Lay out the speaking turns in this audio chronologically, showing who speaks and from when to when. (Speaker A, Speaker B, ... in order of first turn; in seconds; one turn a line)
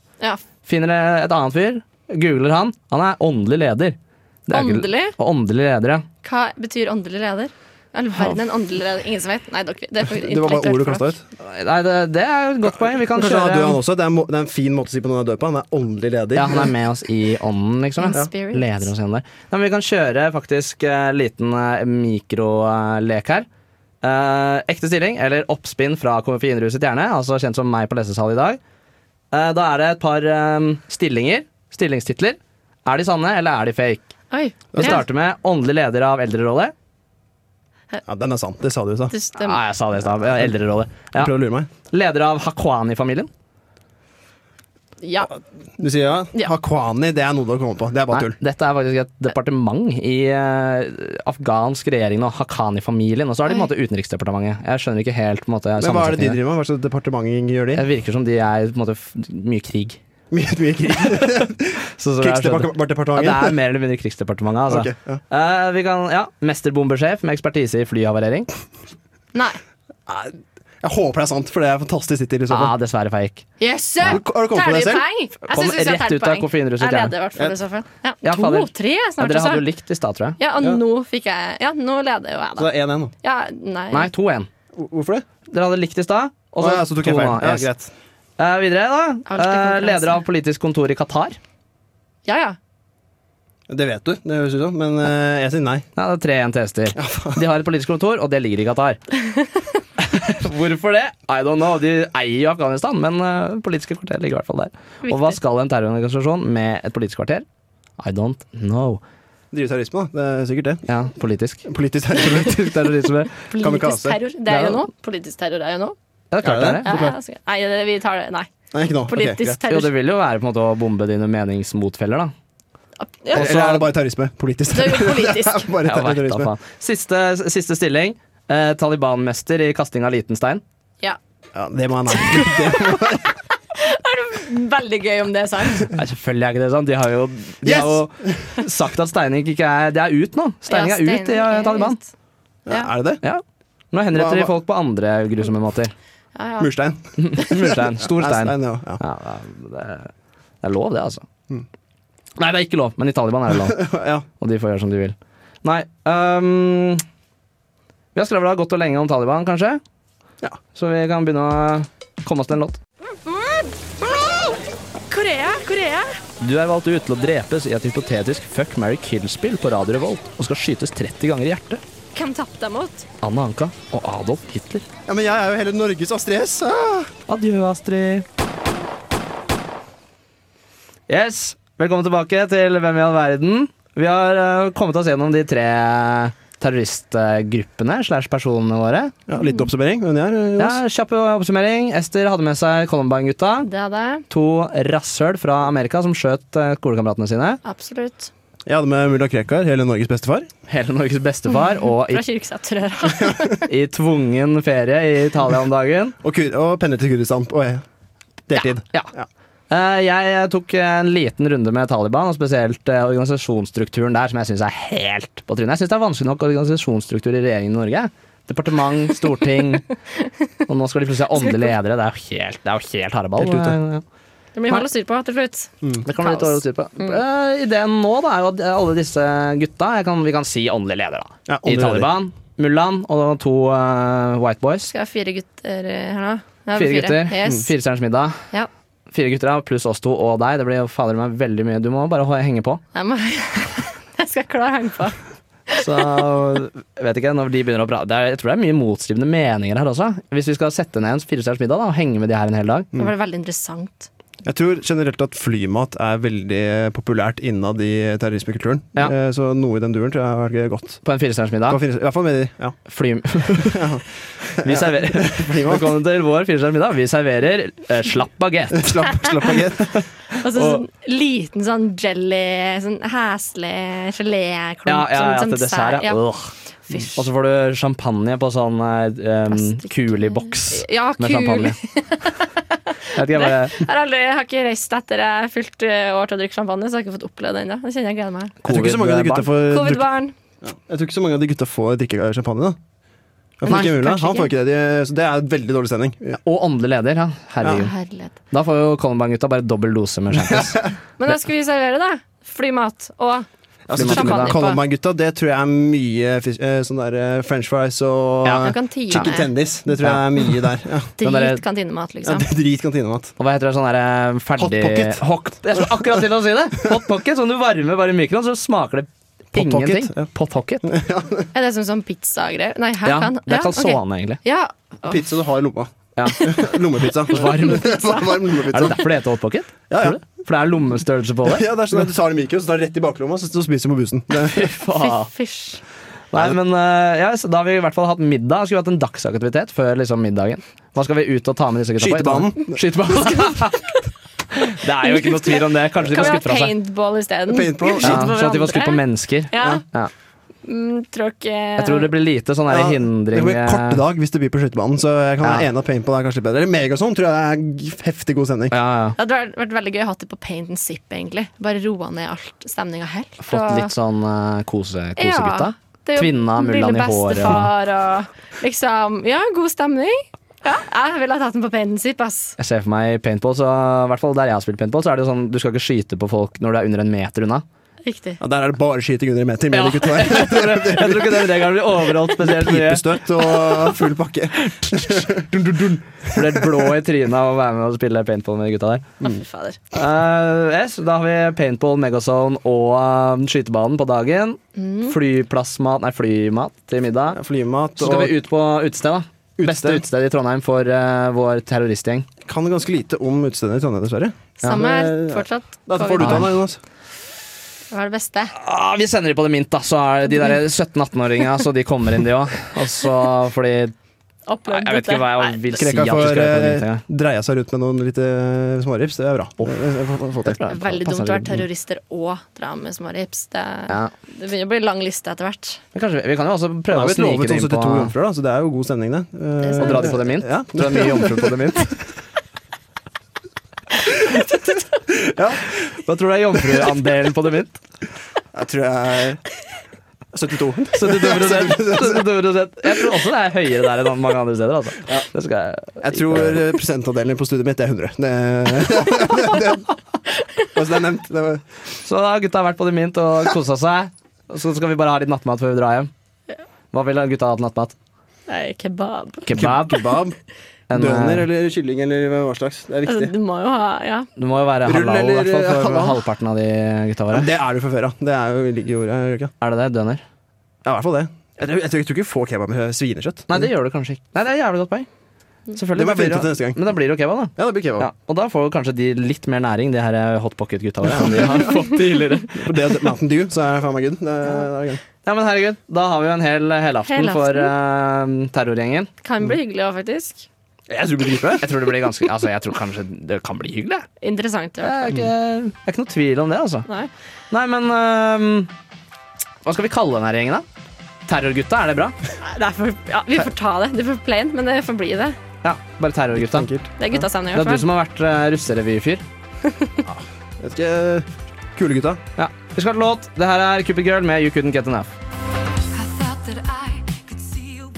Speaker A: 0.6-6.0
Speaker B: 4.5-5.1
Speaker B: 6.2-11.1
Speaker C: 10.1-11.2
Speaker A: 11.4-13.8
Speaker C: 13.1-16.7
Speaker A: 16.4-23.5
Speaker B: 18.0-18.9
Speaker A: 24.0-28.6
Speaker A: 29.3-34.1
Speaker B: 34.3-35.0
Speaker C: 34.7-35.0
Speaker A: 34.7-36.7
Speaker C: 38.0-39.1
Speaker B: 39.1-39.6
Speaker A: 39.4-41.3
Speaker C: 41.1-41.7
Speaker A: 41.9-43.3
Speaker B: 45.0-45.3
Speaker C: 45.8-48.3
Speaker A: 48.1-56.4
Speaker C: 55.8-57.8
Speaker A: 57.8-60.0
Speaker C: 60.3-63.6
Speaker A: 62.0-68.5
Speaker C: 64.7-65.2
Speaker B: 69.3-69.6
Speaker C: 70.1-72.7
Speaker A: 72.5-73.5
Speaker B: 73.6-79.7
Speaker C: 74.0-75.0
Speaker A: 75.5-77.1
Speaker A: 78.2-80.4
Speaker B: 80.4-82.7
Speaker C: 82.6-83.1
Speaker B: 83.2-84.1
Speaker A: 83.9-84.5
Speaker C: 84.8-85.2
Speaker A: 85.5-87.7
Speaker C: 86.6-87.9
Speaker A: 88.4-91.4
Speaker B: 89.3-90.2
Speaker B: 92.2-92.5
Speaker C: 93.7-95.9
Speaker A: 96.0-99.0
Speaker C: 97.0-97.4
Speaker A: 100.0-107.4
Speaker B: 105.0-105.4
Speaker A: 108.0-109.0
Speaker C: 109.5-110.8
Speaker A: 110.9-113.3
Speaker C: 111.6-112.7
Speaker B: 113.5-116.0
Speaker C: 113.6-114.2
Speaker A: 114.5-114.8
Speaker A: 116.3-117.0
Speaker C: 116.4-117.1
Speaker B: 116.8-118.5
Speaker C: 118.7-119.6
Speaker B: 119.1-119.9
Speaker A: 119.7-122.3
Speaker B: 123.0-123.7
Speaker C: 123.3-126.5
Speaker A: 123.3-123.8
Speaker B: 124.7-125.7
Speaker A: 125.8-130.6
Speaker C: 131.5-133.2
Speaker B: 132.1-133.2
Speaker B: 133.8-135.9
Speaker A: 135.9-142.0
Speaker C: 137.6-138.4
Speaker B: 140.7-142.1
Speaker C: 142.7-143.2
Speaker A: 143.2-145.9
Speaker C: 144.1-144.5
Speaker B: 146.3-146.7
Speaker C: 146.6-149.0
Speaker A: 147.2-150.1
Speaker A: 150.6-151.2
Speaker A: 152.4-153.8
Speaker C: 153.5-154.2
Speaker A: 154.4-157.0
Speaker A: 158.1-159.8
Speaker A: 160.7-162.8
Speaker B: 163.2-164.5
Speaker B: 165.1-166.2
Speaker A: 166.4-171.8
Speaker B: 172.1-173.1
Speaker A: 173.2-174.8
Speaker C: 175.1-177.1
Speaker A: 177.3-178.2
Speaker A: 181.1-189.2
Speaker C: 189.3-190.8
Speaker A: 190.6-193.7
Speaker B: 193.6-194.2
Speaker A: 194.3-197.6
Speaker B: 197.6-198.3
Speaker C: 198.7-200.5
Speaker A: 200.7-202.2
Speaker B: 201.5-203.6
Speaker A: 203.7-206.1
Speaker C: 206.2-207.8
Speaker C: 208.5-209.2
Speaker A: 209.7-219.8
Speaker A: 220.7-224.0
Speaker C: 223.4-223.7
Speaker B: 224.5-227.2
Speaker A: 226.0-234.9
Speaker C: 231.5-232.1
Speaker B: 234.9-237.7
Speaker A: 236.7-238.4
Speaker A: 239.1-242.8
Speaker B: 242.9-245.2
Speaker B: 245.7-246.2
Speaker A: 245.8-252.9
Speaker B: 252.9-254.1
Speaker C: 254.4-261.0
Speaker A: 261.0-261.8
Speaker C: 261.7-262.8
Speaker A: 262.9-263.8
Speaker C: 263.5-265.9
Speaker A: 264.6-269.0
Speaker C: 268.7-270.1
Speaker B: 270.4-276.2
Speaker A: 270.6-270.8
Speaker A: 274.9-276.5
Speaker A: 277.1-281.8
Speaker B: 279.5-288.6
Speaker A: 283.1-283.8
Speaker A: 288.6-289.5
Speaker C: 288.6-290.0
Speaker B: 289.6-290.3
Speaker C: 290.6-292.8
Speaker C: 293.6-296.4
Speaker B: 293.6-294.5
Speaker A: 296.4-297.9
Speaker B: 297.7-298.3
Speaker A: 298.5-300.8
Speaker C: 300.4-300.9
Speaker B: 301.2-304.8
Speaker A: 303.9-304.6
Speaker C: 303.9-311.1
Speaker A: 308.4-309.3
Speaker B: 308.6-309.5
Speaker B: 311.2-312.5
Speaker A: 311.2-311.6
Speaker C: 312.2-313.3
Speaker A: 313.4-320.9
Speaker C: 314.6-316.2
Speaker C: 319.5-320.3
Speaker C: 320.8-321.5
Speaker B: 321.5-325.2
Speaker A: 323.1-324.4
Speaker C: 325.0-329.0
Speaker A: 326.1-326.5
Speaker A: 327.3-328.0
Speaker B: 327.4-328.6
Speaker A: 328.7-332.0
Speaker C: 329.9-330.2
Speaker C: 331.4-334.7
Speaker A: 334.5-335.3
Speaker B: 334.9-335.8
Speaker A: 336.3-343.9
Speaker C: 342.0-342.8
Speaker A: 344.5-346.7
Speaker B: 345.0-349.8
Speaker C: 347.5-348.3
Speaker A: 348.0-350.1
Speaker B: 350.6-352.1
Speaker A: 351.8-354.0
Speaker C: 352.7-358.7
Speaker A: 358.7-359.2
Speaker B: 359.2-363.9
Speaker A: 363.4-367.7
Speaker B: 365.2-372.6
Speaker A: 372.6-377.6
Speaker B: 378.0-378.4
Speaker C: 378.4-381.6
Speaker A: 379.7-383.6
Speaker C: 382.3-385.5
Speaker A: 384.6-389.1
Speaker C: 386.3-386.6
Speaker B: 389.2-389.8
Speaker A: 389.9-397.4
Speaker B: 394.8-395.1
Speaker C: 397.3-398.4
Speaker A: 398.0-402.3
Speaker C: 399.6-400.0
Speaker C: 402.4-406.8
Speaker B: 404.6-406.5
Speaker A: 406.2-406.4
Speaker B: 407.9-408.5
Speaker A: 408.6-413.9
Speaker B: 414.5-415.7
Speaker A: 414.7-417.0
Speaker C: 415.7-420.6
Speaker A: 420.4-421.6
Speaker B: 420.7-425.8
Speaker A: 425.9-428.1
Speaker C: 426.9-431.7
Speaker B: 429.6-430.1
Speaker A: 429.8-431.9
Speaker C: 435.1-435.8
Speaker A: 436.0-437.8
Speaker C: 438.5-439.4
Speaker C: 440.3-442.2
Speaker A: 440.9-446.6
Speaker C: 446.0-449.9
Speaker C: 450.6-451.6
Speaker A: 452.0-456.1
Speaker A: 456.9-457.9
Speaker B: 458.5-459.4
Speaker A: 459.4-460.1
Speaker C: 459.5-460.4
Speaker A: 460.9-461.5
Speaker C: 460.9-463.3
Speaker B: 463.1-464.3
Speaker A: 464.4-467.5
Speaker C: 464.8-466.2
Speaker C: 467.3-469.5
Speaker A: 469.6-470.2
Speaker C: 470.8-473.7
Speaker A: 473.5-475.1
Speaker A: 475.7-482.7
Speaker C: 475.9-476.8
Speaker C: 477.6-478.1
Speaker C: 481.0-481.9
Speaker C: 482.5-485.0
Speaker A: 485.2-489.1
Speaker B: 487.1-487.7
Speaker B: 489.2-490.5
Speaker C: 490.9-491.7
Speaker A: 491.6-494.1
Speaker B: 494.2-495.2
Speaker A: 494.8-496.9
Speaker A: 497.5-498.7
Speaker A: 499.6-500.6
Speaker A: 501.3-502.1
Speaker B: 502.4-505.4
Speaker A: 505.6-506.7
Speaker C: 506.4-506.9
Speaker B: 507.0-507.9
Speaker A: 507.5-509.2
Speaker B: 509.7-510.0
Speaker C: 510.1-512.2
Speaker A: 512.4-515.1
Speaker B: 516.1-517.0